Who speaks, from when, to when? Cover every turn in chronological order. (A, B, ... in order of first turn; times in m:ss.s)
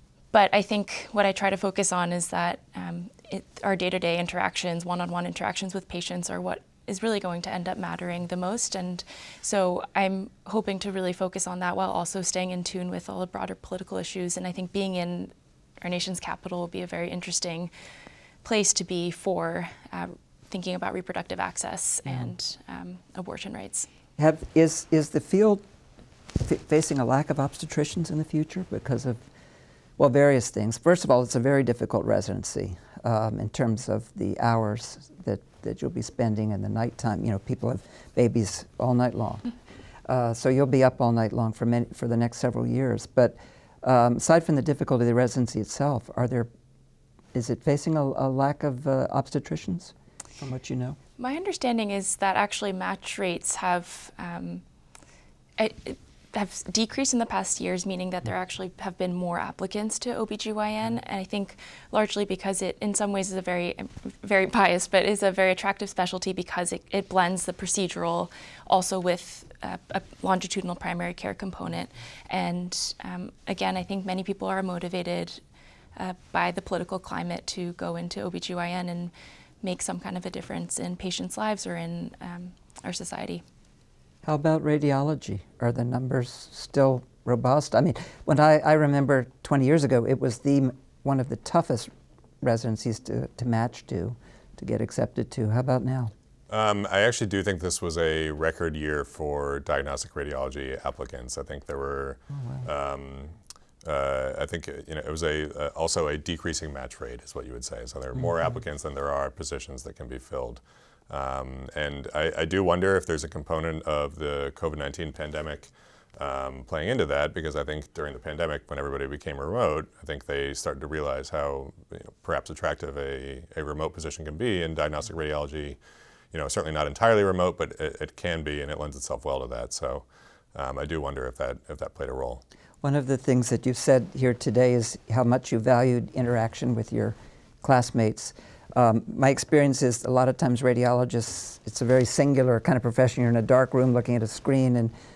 0:00.3-0:17.7 A
0:18.4-0:23.9 A
0:24.2-0:25.6 B
0:26.4-0:29.2 B
0:30.0-0:39.5 B
0:40.1-0:46.5 B
0:47.3-0:51.0 B
0:51.2-0:54.6 A
0:55.6-1:15.4 A
1:16.0-1:23.4 A
1:24.2-1:31.9 B
1:32.4-1:36.1 B
1:36.5-2:05.8 C
1:42.3-1:42.7 B
2:06.3-2:10.0 C
2:10.6-2:12.4 C
2:12.8-2:24.9 B